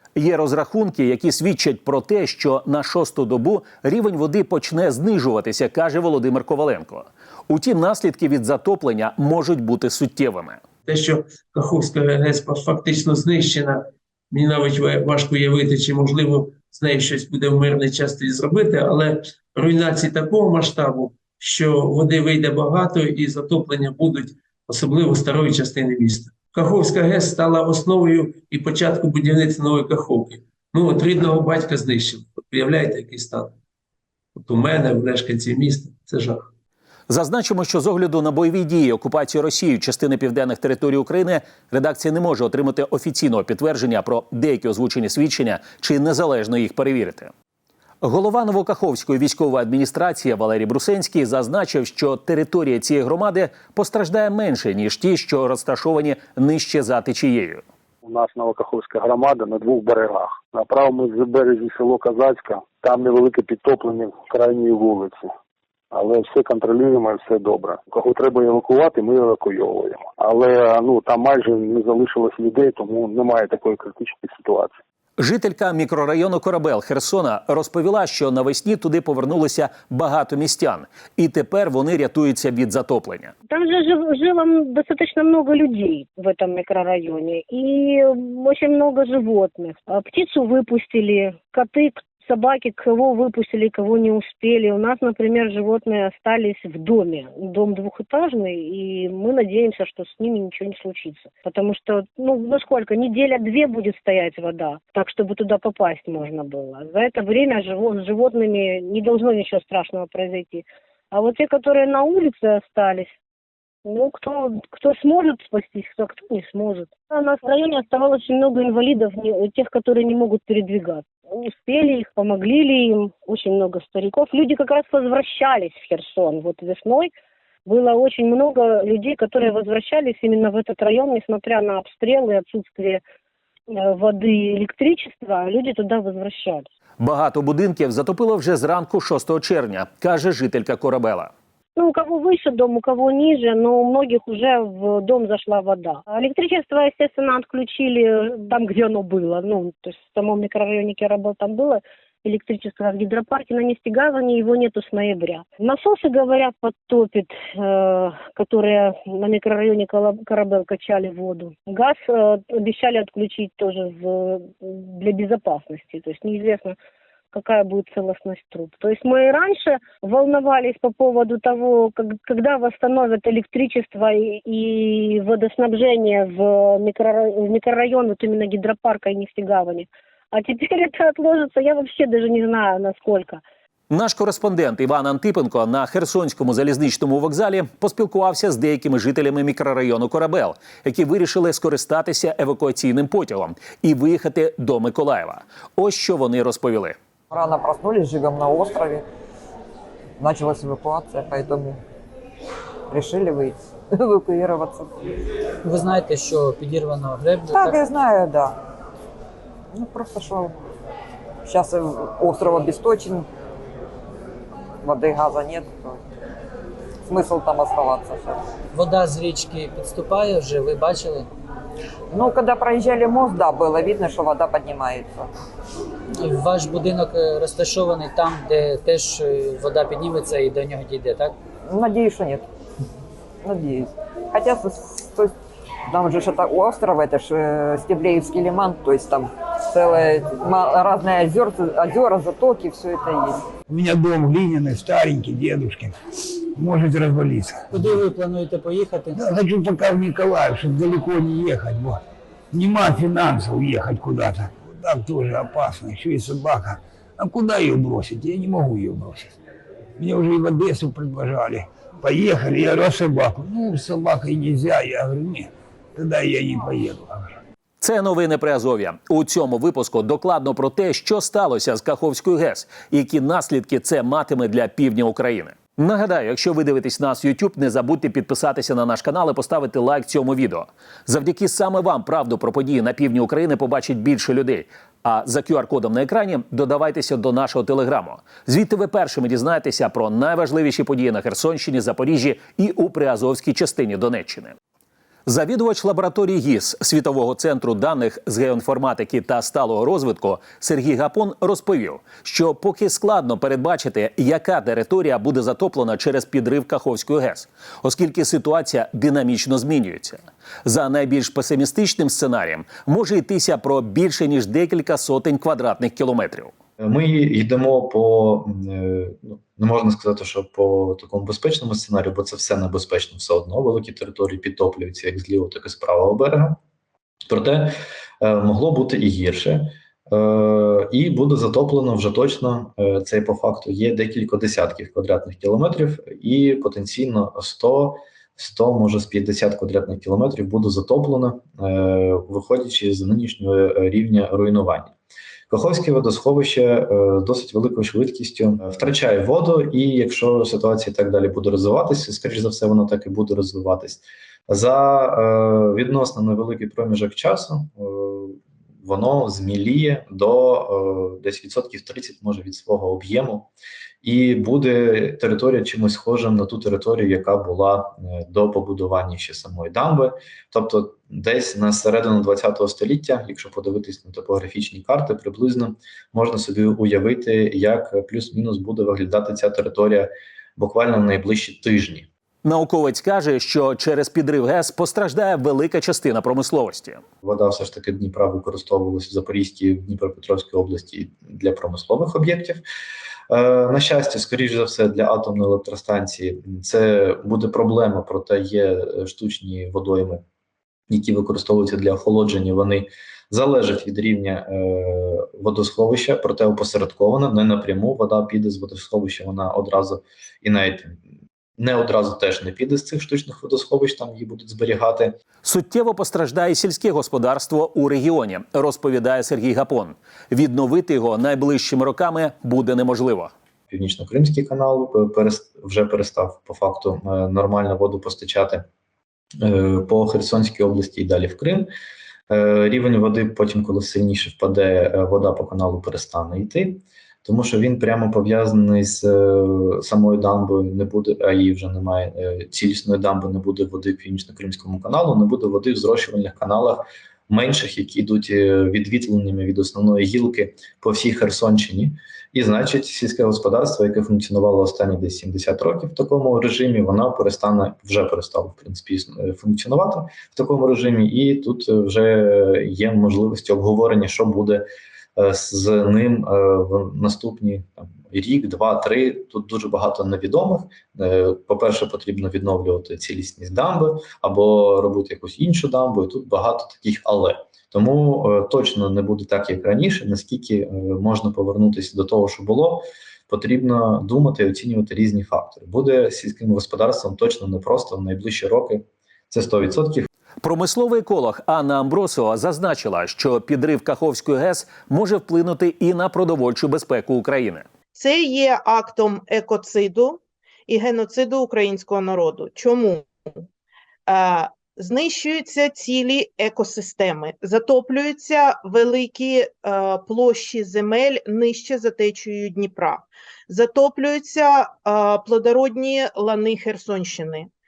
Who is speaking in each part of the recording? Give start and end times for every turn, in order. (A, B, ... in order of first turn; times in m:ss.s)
0:00.2-0:10.6 A
0:10.8-0:33.5 B
0:34.4-0:36.5 B
0:37.1-0:47.3 A
0:48.0-0:57.6 A
0:58.0-1:05.3 C
1:05.9-1:14.7 C
1:15.2-1:23.3 A
1:23.5-1:53.1 D
1:53.8-2:07.1 D
2:07.6-2:13.0 D
2:13.7-2:16.7 D
2:17.0-2:21.3 A
2:21.8-2:46.8 D
2:47.3-3:03.4 D
3:03.9-3:17.0 A
3:17.3-3:19.0 E
3:20.2-3:21.8 E
3:22.9-3:24.9 E
3:25.6-3:27.8 F
3:27.5-3:28.6 E
3:29.7-3:30.5 E
3:31.4-3:33.3 E
3:34.8-3:36.0 E
3:37.1-3:38.4 E
3:38.7-3:41.3 F
3:42.1-3:45.3 E
3:46.2-3:51.3 F
3:51.7-3:52.4 E
3:53.4-3:55.3 E
3:55.9-4:03.4 E
4:03.7-4:06.0 G
4:06.6-4:07.7 G
4:07.7-4:09.2 F
4:09.1-4:12.0 G
4:12.5-4:19.3 G
4:20.0-4:27.4 G
4:27.8-4:54.6 A
4:55.2-5:16.5 A
5:16.8-5:26.6 H
5:27.3-5:44.9 H
5:45.5-6:03.5 H
6:04.0-6:22.1 H
6:22.4-6:27.0 A
6:27.2-6:32.6 H
6:33.3-6:40.2 H
6:40.9-6:51.0 H
6:51.6-6:55.2 H
6:55.4-7:03.3 A
7:03.7-7:08.6 H
7:09.4-7:11.7 H
7:12.3-8:10.1 H
8:10.4-8:17.6 A
8:17.9-8:23.1 I
8:24.1-8:37.5 I